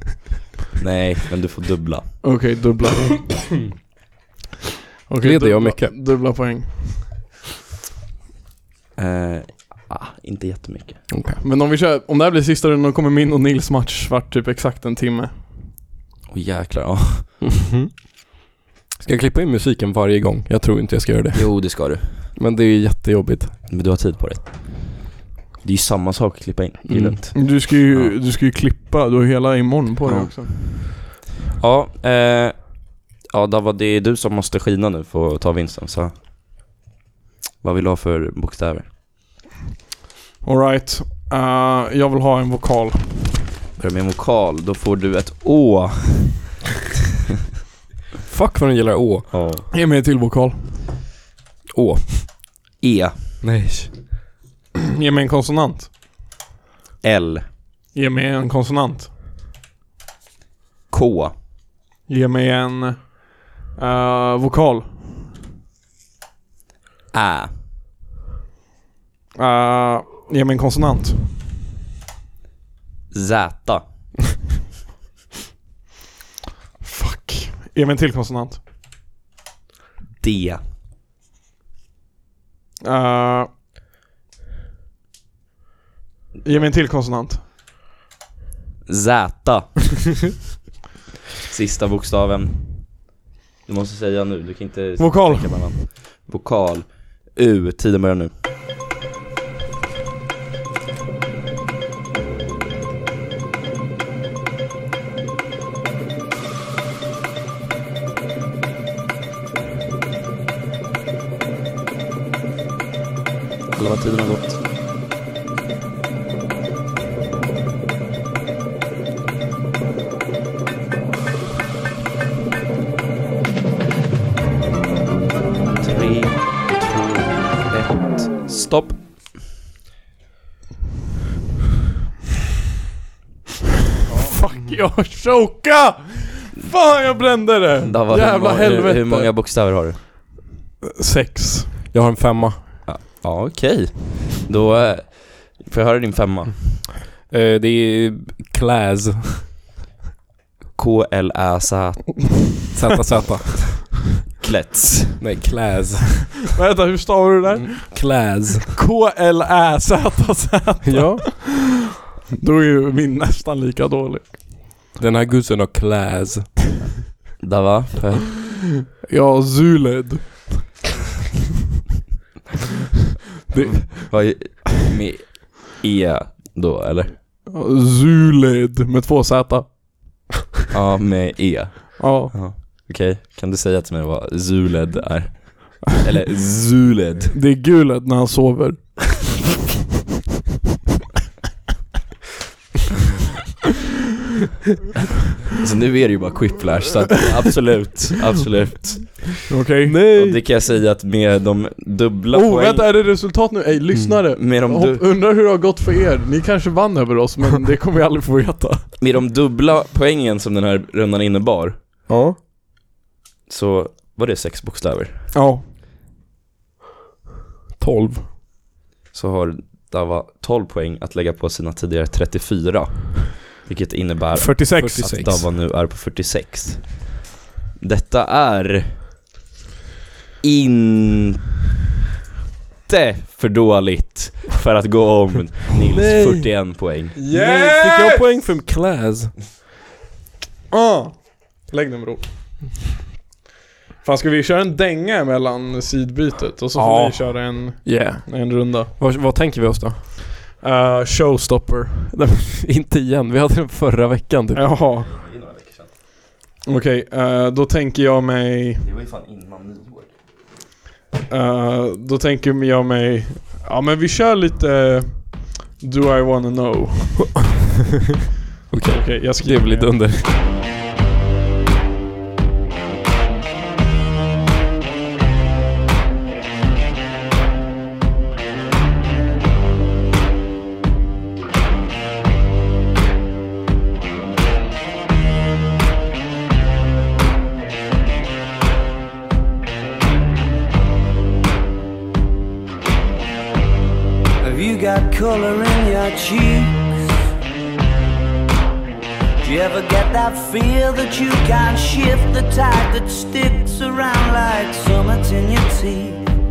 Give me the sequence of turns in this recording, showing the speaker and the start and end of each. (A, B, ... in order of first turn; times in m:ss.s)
0:00.8-0:02.2 A
0:02.2-0:03.5 B
0:05.1-0:07.2 B
0:05.2-0:05.9 C
0:09.0-0:11.1 A
0:11.1-0:11.4 C
0:11.4-0:15.4 B
0:16.3-0:17.3 A
0:17.6-0:17.9 C
0:19.0-0:23.6 C
0:21.3-0:22.3 A
0:23.7-0:25.1 A
0:25.6-0:28.2 A
0:26.9-0:27.2 C
0:27.3-0:30.5 B
0:30.1-0:30.9 A
0:31.6-0:36.1 A
0:37.6-0:38.9 A
0:40.4-0:43.4 B
0:43.8-0:46.5 A
0:48.3-0:49.3 C
0:49.3-0:49.7 A
0:49.7-0:50.7 B
0:51.7-0:52.4 C
0:52.8-0:53.3 A
0:53.4-0:53.9 C
0:55.0-0:55.9 B
0:57.0-0:57.5 A
0:57.9-0:59.1 B
1:00.9-1:01.3 A
1:02.1-1:05.0 B
1:07.1-1:07.5 A
1:09.4-1:11.2 B
1:13.1-1:13.8 A
1:16.8-1:18.6 B
1:20.2-1:20.6 A
1:22.8-1:23.5 B
1:26.4-1:27.4 B
1:28.9-1:30.3 A
1:31.5-1:33.1 A
1:33.7-1:38.3 A
1:35.0-1:35.7 B
1:53.8-1:54.6 A
2:05.8-2:09.1 A
2:14.1-2:19.3 B
2:17.9-2:20.0 A
2:20.8-2:21.7 B
2:21.9-2:22.7 C
2:22.8-2:26.8 A
2:27.3-2:29.5 C
2:30.8-2:32.5 A
2:32.7-2:34.0 C
2:34.4-2:35.2 A
2:35.2-2:36.4 C
2:36.5-2:41.6 B
2:37.5-2:38.7 C
2:40.8-2:41.3 C
2:42.4-2:44.4 B
2:45.0-2:46.6 C
2:47.4-2:48.4 A
2:49.0-2:50.8 B
2:53.9-2:57.2 A
2:57.5-3:00.3 B
3:00.7-3:07.3 A
3:02.0-3:02.3 B
3:07.3-3:09.3 B
3:15.5-3:19.5 A
3:19.5-3:20.0 B
3:19.8-3:20.4 C
3:20.1-3:22.9 A
3:22.3-3:28.9 B
3:24.4-3:25.1 A
3:29.0-3:31.8 A
3:32.1-3:32.4 C
3:33.5-3:35.2 A
3:35.3-3:35.6 B
3:37.8-3:38.3 C
3:39.1-3:47.2 A
3:44.4-3:45.1 B
3:44.8-3:45.4 C
3:47.8-3:49.0 A
3:50.4-3:51.4 A
3:52.9-3:57.2 A
3:55.9-3:56.5 C
3:57.2-3:58.2 B
3:57.3-3:59.3 C
4:00.7-4:02.7 B
4:04.0-4:08.9 B
4:06.8-4:10.0 C
4:10.6-4:12.4 B
4:12.4-4:14.6 C
4:14.6-4:15.1 B
4:14.9-4:15.9 A
4:16.7-4:18.9 B
4:18.8-4:20.1 A
4:21.3-4:27.4 B
4:28.7-4:30.4 C
4:28.9-4:30.0 B
4:54.4-4:56.8 D
4:59.4-5:06.2 D